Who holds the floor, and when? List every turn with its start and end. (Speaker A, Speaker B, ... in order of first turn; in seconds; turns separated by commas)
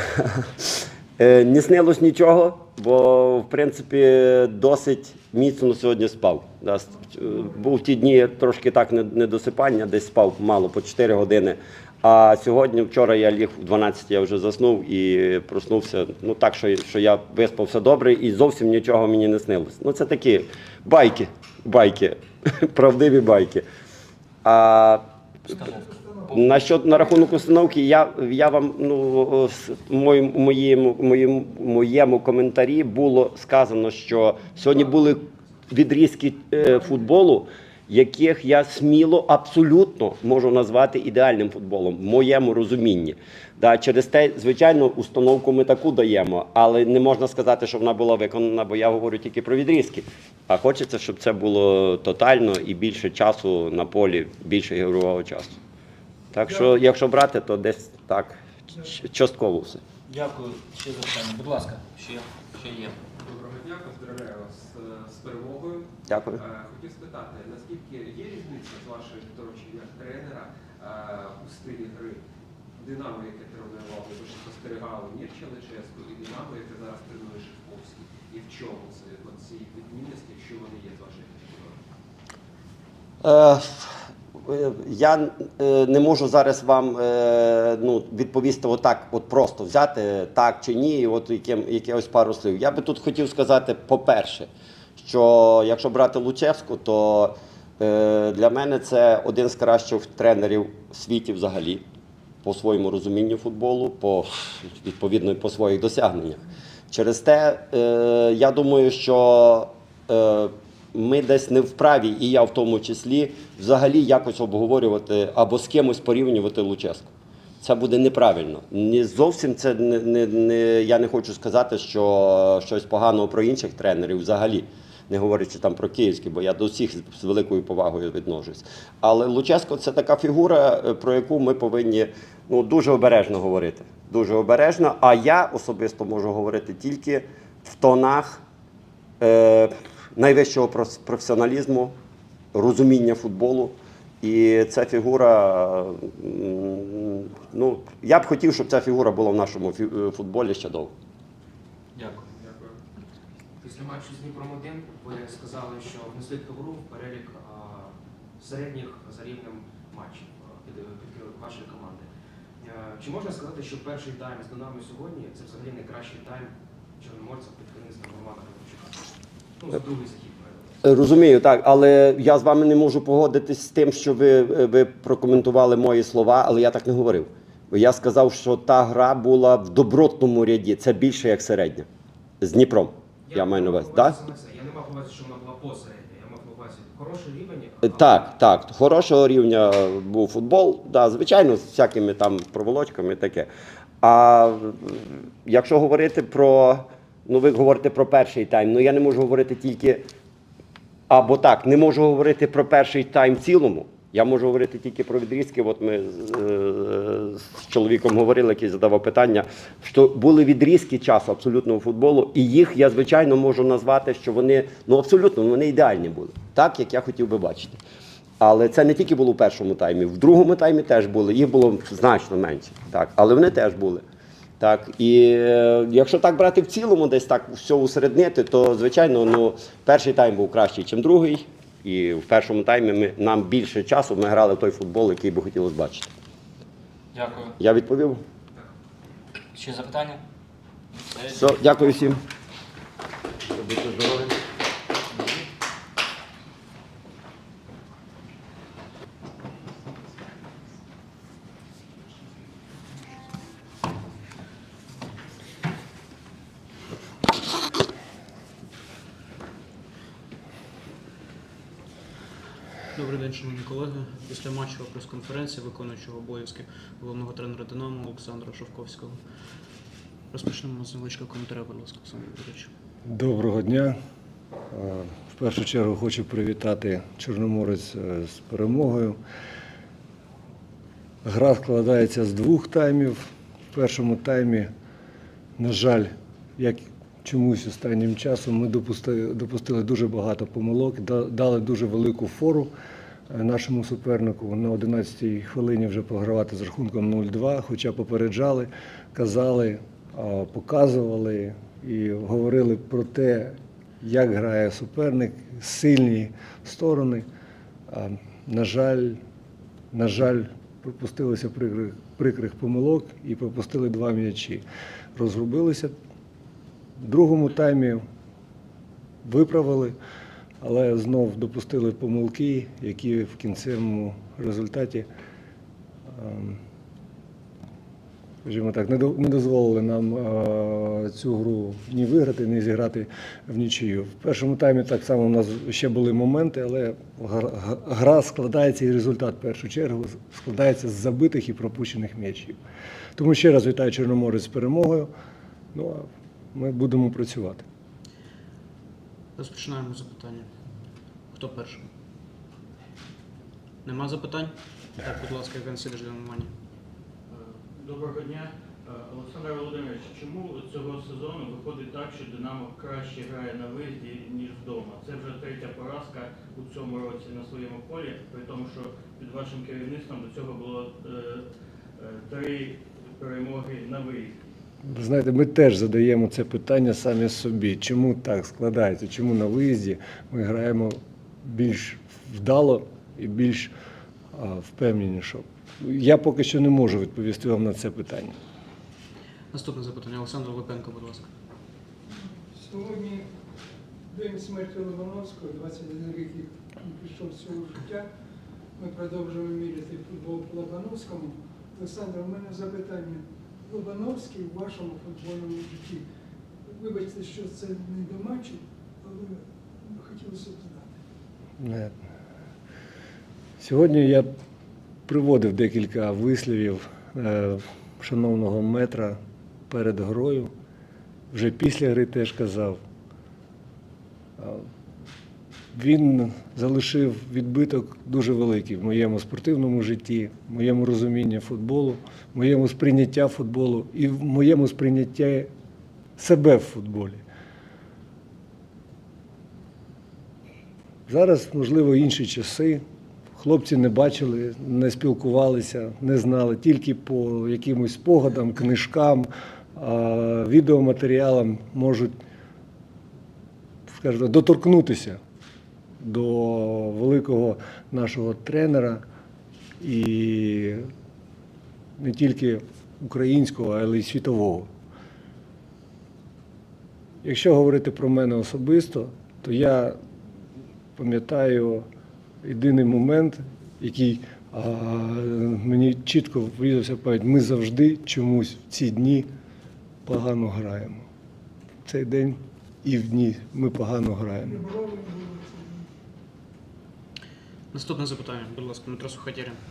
Speaker A: 1.2-23.6, Speaker A: 24.4-25.0, Speaker B: 25.5-26.6, Speaker A: 26.3-55.6, Speaker A: 56.3-59.8, Speaker B: 60.1-63.0, Speaker C: 63.1-72.2, Speaker A: 66.1-66.4, Speaker C: 72.8-81.8, Speaker A: 83.2-83.9, Speaker A: 84.5-101.8, Speaker A: 102.4-138.4, Speaker A: 139.2-141.9, Speaker A: 142.5-150.9, Speaker B: 151.9-152.2, Speaker D: 153.6-162.1, Speaker D: 162.6-169.1, Speaker D: 169.6-170.8, Speaker A: 170.8-181.9, Speaker A: 182.4-184.2, Speaker D: 183.2-188.3, Speaker A: 187.8-193.5, Speaker A: 194.0-200.0, Speaker A: 201.1-217.8, Speaker A: 218.4-224.0, Speaker A: 224.6-236.1, Speaker B: 237.1-237.6, Speaker A: 237.6-238.2, Speaker B: 239.5-240.2, Speaker B: 241.0-241.9, Speaker A: 241.3-242.2, Speaker A: 243.6-244.4, Speaker E: 263.0-264.8, Speaker E: 265.5-269.1, Speaker E: 270.3-272.7, Speaker F: 273.1-273.9, Speaker F: 274.7-279.2, Speaker F: 281.2-284.7, Speaker F: 285.6-292.7, Speaker F: 293.3-307.2, Speaker F: 307.9-309.2, Speaker F: 309.9-314.6, Speaker F: 315.2-315.9, Speaker F: 317.0-318.0, Speaker F: 319.2-319.9, Speaker F: 320.6-325.1, Speaker F: 326.1-326.6, Speaker F: 328.4-342.6, Speaker F: 343.2-345.1, Speaker F: 345.7-347.6, Speaker E: 349.4-350.5, Speaker E: 351.4-351.9, Speaker E: 353.9-354.5, Speaker E: 355.0-356.5, Speaker G: 357.3-371.4, Speaker G: 372.0-374.3, Speaker F: 374.9-383.7, Speaker F: 384.3-388.4, Speaker E: 389.5-391.3, Speaker H: 392.1-393.3, Speaker H: 394.1-398.1, Speaker H: 398.8-406.1, Speaker H: 406.7-410.9, Speaker F: 411.6-411.9, Speaker F: 413.6-414.3, Speaker F: 415.1-419.2, Speaker F: 419.7-420.5, Speaker F: 421.3-422.8, Speaker F: 424.4-424.7, Speaker F: 425.7-435.5, Speaker F: 436.2-437.2, Speaker F: 441.1-442.8, Speaker F: 443.4-452.1, Speaker F: 453.9-455.2, Speaker F: 456.0-459.0, Speaker F: 459.8-460.9, Speaker F: 462.0-464.7, Speaker F: 467.2-470.0, Speaker F: 471.0-471.9, Speaker F: 472.4-479.3, Speaker F: 480.1-481.1, Speaker F: 481.9-484.6, Speaker H: 484.5-485.9, Speaker E: 487.7-488.1